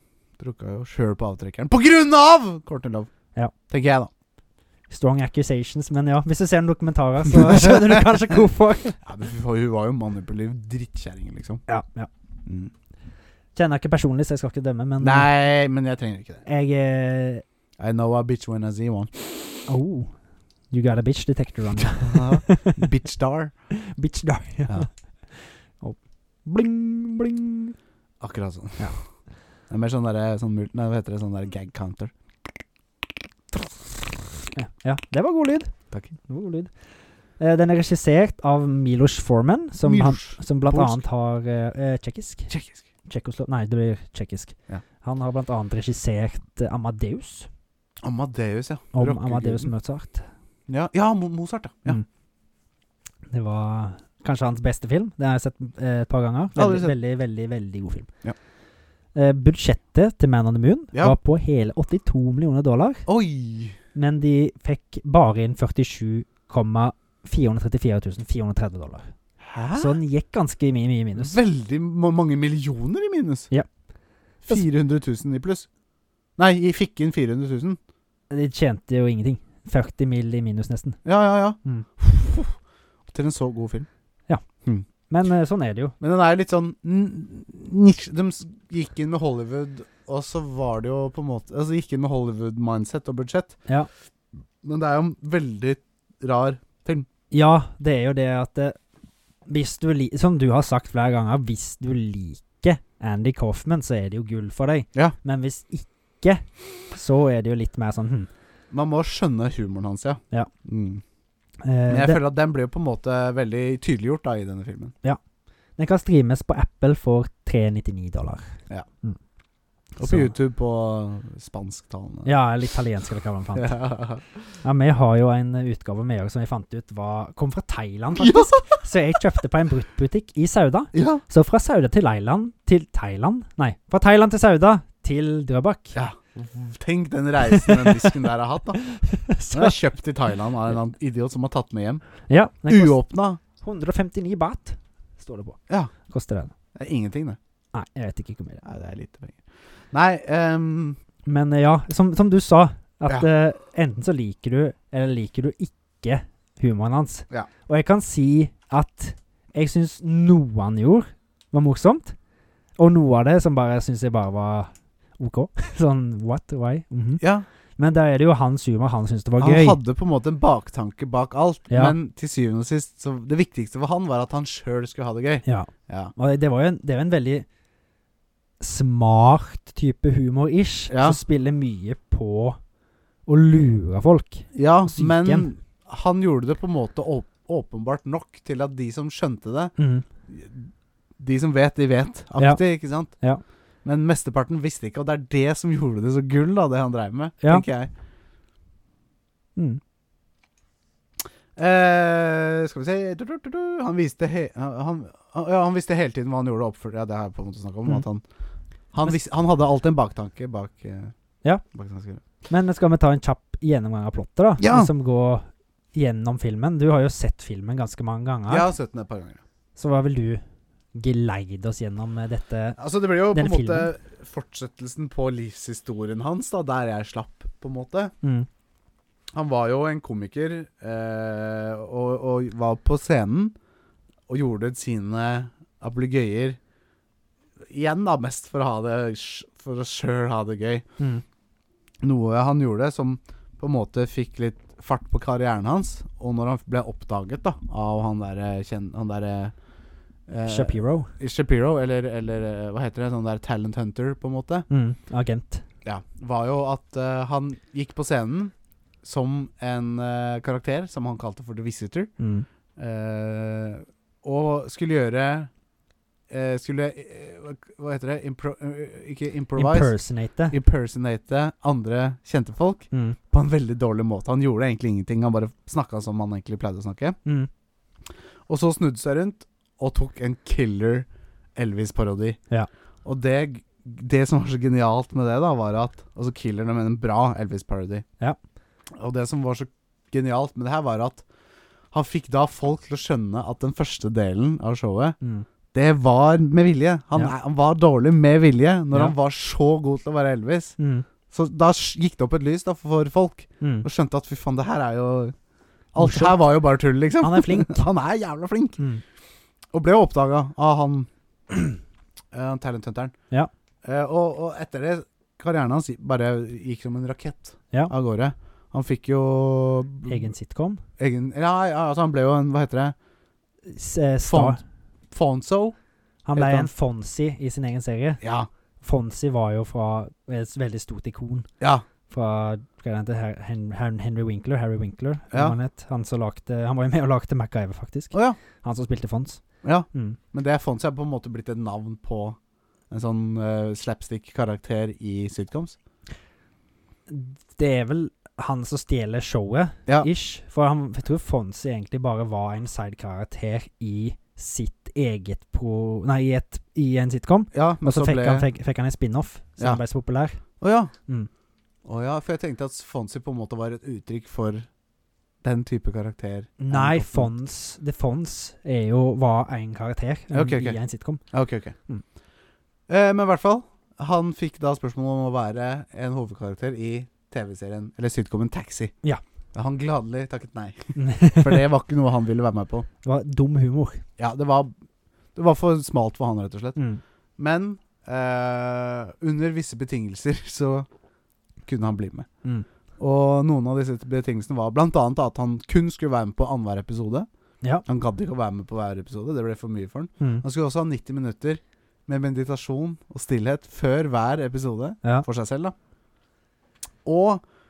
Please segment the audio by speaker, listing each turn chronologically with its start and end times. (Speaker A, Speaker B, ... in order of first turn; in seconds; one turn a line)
Speaker A: 0.4-3.1
Speaker A: 3.7-4.1
Speaker B: 4.9-9.0
Speaker A: 7.3-8.1
Speaker A: 9.0-11.6
Speaker B: 11.7-12.1
Speaker A: 12.5-12.7
Speaker B: 13.6-15.3
Speaker A: 15.0-16.4
Speaker B: 16.5-17.4
Speaker A: 17.8-19.2
Speaker B: 19.7-20.1
Speaker B: 20.7-22.9
Speaker A: 22.0-23.5
Speaker B: 23.7-27.8
Speaker A: 28.2-28.9
Speaker A: 29.7-32.1
Speaker A: 33.5-33.9
Speaker B: 34.5-36.7
Speaker B: 37.4-42.5
Speaker A: 39.8-41.0
Speaker A: 42.5-42.8
Speaker B: 43.1-47.5
Speaker A: 48.0-49.7
Speaker B: 48.9-50.3
Speaker A: 50.7-52.0
Speaker B: 53.3-58.1
Speaker A: 56.5-57.0
Speaker B: 59.1-63.0
Speaker A: 63.1-63.8
Speaker B: 64.0-69.1
Speaker A: 69.4-70.0
Speaker B: 69.8-71.4
Speaker A: 71.2-73.5
Speaker A: 74.4-75.7
Speaker A: 76.4-77.8
Speaker B: 78.3-81.0
Speaker A: 81.0-82.6
Speaker A: 83.1-83.9
Speaker B: 85.1-86.0
Speaker A: 86.0-93.6
Speaker A: 94.6-97.1
Speaker B: 97.3-98.8
Speaker B: 99.5-108.3
Speaker A: 108.7-111.0
Speaker B: 111.6-112.2
Speaker A: 111.9-114.9
Speaker B: 115.8-119.2
Speaker A: 120.0-122.3
Speaker B: 120.0-120.3
Speaker B: 122.2-123.8
Speaker A: 123.6-124.2
Speaker B: 124.6-136.0
Speaker A: 128.2-128.8
Speaker A: 130.9-131.2
Speaker A: 135.9-138.8
Speaker B: 137.5-138.1
Speaker B: 138.8-139.8
Speaker A: 139.5-142.0
Speaker B: 142.3-143.0
Speaker A: 142.7-143.4
Speaker B: 143.5-146.5
Speaker A: 146.8-147.4
Speaker B: 147.7-148.6
Speaker A: 148.6-151.0
Speaker B: 151.3-162.2
Speaker B: 162.8-167.2
Speaker A: 167.2-167.5
Speaker B: 167.8-169.8
Speaker A: 169.4-176.1
Speaker B: 171.7-171.9
Speaker B: 175.4-177.4
Speaker B: 178.6-182.6
Speaker A: 180.9-181.2
Speaker B: 183.3-185.5
Speaker A: 184.5-189.8
Speaker B: 189.8-190.1
Speaker A: 190.3-193.2
Speaker B: 192.4-193.4
Speaker A: 193.8-197.9
Speaker A: 201.6-208.2
Speaker A: 208.9-211.1
Speaker A: 211.7-212.2
Speaker B: 212.5-218.7
Speaker A: 214.6-214.9
Speaker A: 218.5-219.4
Speaker B: 219.8-220.4
Speaker B: 220.9-222.8
Speaker A: 222.8-228.1
Speaker B: 223.3-223.9
Speaker B: 228.2-228.5
Speaker A: 229.3-233.6
Speaker A: 234.3-236.6
Speaker A: 237.7-240.8
Speaker A: 242.0-249.5
Speaker A: 250.3-254.7
Speaker B: 250.5-251.1
Speaker B: 254.7-255.6
Speaker A: 255.8-262.1
Speaker B: 262.2-262.5
Speaker A: 262.8-265.5
Speaker A: 266.3-269.9
Speaker B: 269.6-270.6
Speaker A: 270.5-277.2
Speaker B: 272.9-273.2
Speaker A: 278.5-282.4
Speaker A: 283.1-288.0
Speaker A: 288.9-291.2
Speaker A: 291.9-295.2
Speaker B: 295.2-295.5
Speaker A: 295.7-300.8
Speaker B: 300.8-301.1
Speaker A: 301.3-305.4
Speaker B: 303.6-303.9
Speaker A: 305.9-308.8
Speaker B: 306.0-306.4
Speaker B: 307.2-307.9
Speaker A: 309.7-311.8
Speaker A: 312.3-313.1
Speaker A: 313.8-320.3
Speaker B: 320.1-320.8
Speaker A: 321.0-322.9
Speaker B: 323.7-324.6
Speaker A: 324.2-324.6
Speaker A: 325.1-325.8
Speaker B: 326.3-328.2
Speaker A: 326.4-326.7
Speaker A: 328.2-328.5
Speaker B: 328.8-331.5
Speaker B: 332.1-340.2
Speaker A: 338.1-338.4
Speaker A: 339.6-342.4
Speaker A: 342.9-345.8
Speaker B: 347.1-360.4
Speaker A: 357.5-358.5
Speaker A: 360.6-360.9
Speaker A: 361.9-364.7
Speaker A: 365.4-367.3
Speaker B: 366.6-371.2
Speaker A: 370.3-370.8
Speaker A: 371.3-371.8
Speaker A: 372.9-378.9
Speaker A: 379.5-382.9
Speaker B: 381.0-381.7
Speaker B: 383.0-384.0
Speaker A: 384.2-384.7
Speaker A: 385.4-386.8
Speaker B: 386.8-387.0
Speaker A: 387.4-390.9
Speaker A: 391.6-392.3
Speaker A: 393.0-397.3
Speaker A: 397.9-405.7
Speaker A: 407.1-407.4